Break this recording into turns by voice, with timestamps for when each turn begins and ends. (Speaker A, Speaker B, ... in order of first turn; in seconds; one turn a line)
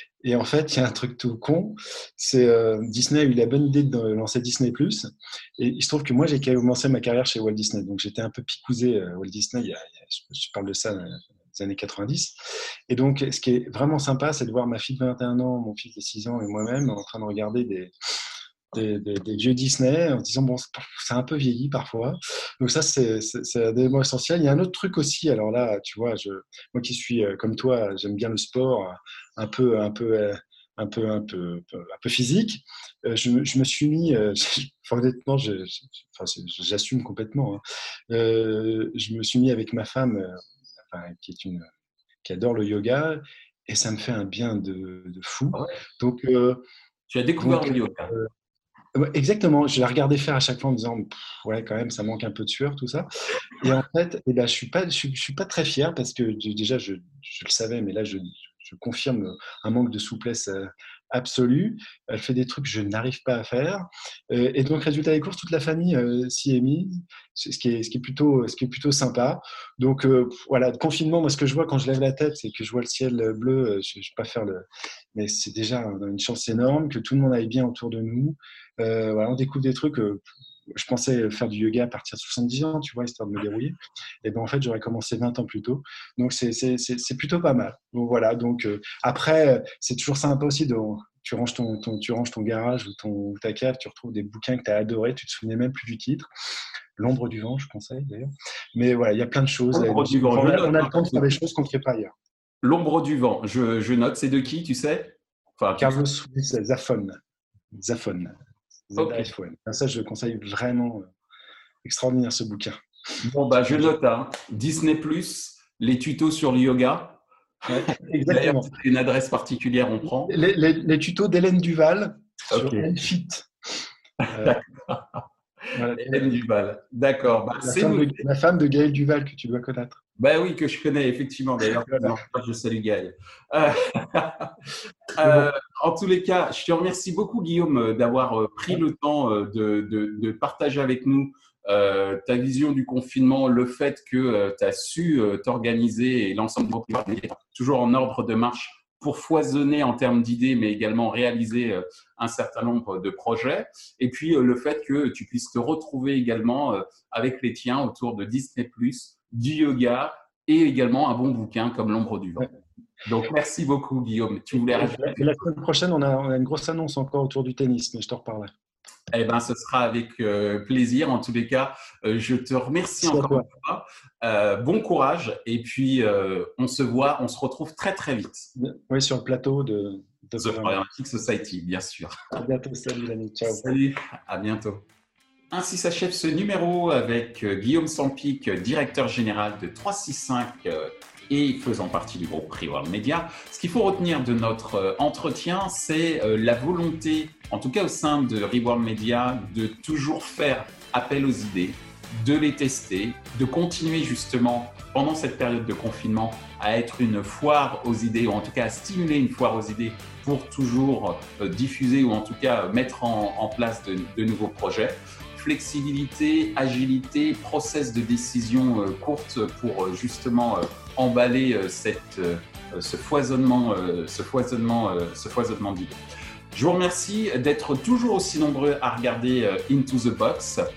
Speaker A: 0.2-12.4
Speaker A: 12.9-17.9
Speaker A: 18.7-40.4
Speaker A: 40.9-41.7
Speaker A: 42.2-46.6
Speaker B: 47.1-48.1
Speaker A: 47.4-48.3
Speaker A: 49.0-80.2
Speaker A: 80.8-96.3
Speaker A: 97.0-102.1
Speaker B: 99.7-101.3
Speaker B: 102.6-106.0
Speaker A: 105.8-107.2
Speaker A: 107.7-108.3
Speaker A: 108.9-111.0
Speaker B: 109.0-109.3
Speaker A: 111.8-112.8
Speaker B: 113.2-117.2
Speaker A: 117.7-118.7
Speaker B: 117.9-120.3
Speaker A: 120.2-123.5
Speaker B: 122.5-122.9
Speaker B: 124.2-125.2
Speaker A: 124.3-124.6
Speaker A: 125.7-126.4
Speaker B: 125.9-128.2
Speaker A: 127.6-130.0
Speaker B: 130.2-134.6
Speaker A: 131.6-132.2
Speaker B: 135.2-162.5
Speaker A: 135.2-135.5
Speaker B: 163.1-165.4
Speaker A: 164.7-168.5
Speaker B: 169.1-178.5
Speaker A: 173.0-173.5
Speaker A: 178.6-180.8
Speaker B: 180.4-182.4
Speaker A: 182.3-183.7
Speaker B: 183.5-184.8
Speaker B: 185.5-226.0
Speaker B: 226.5-230.6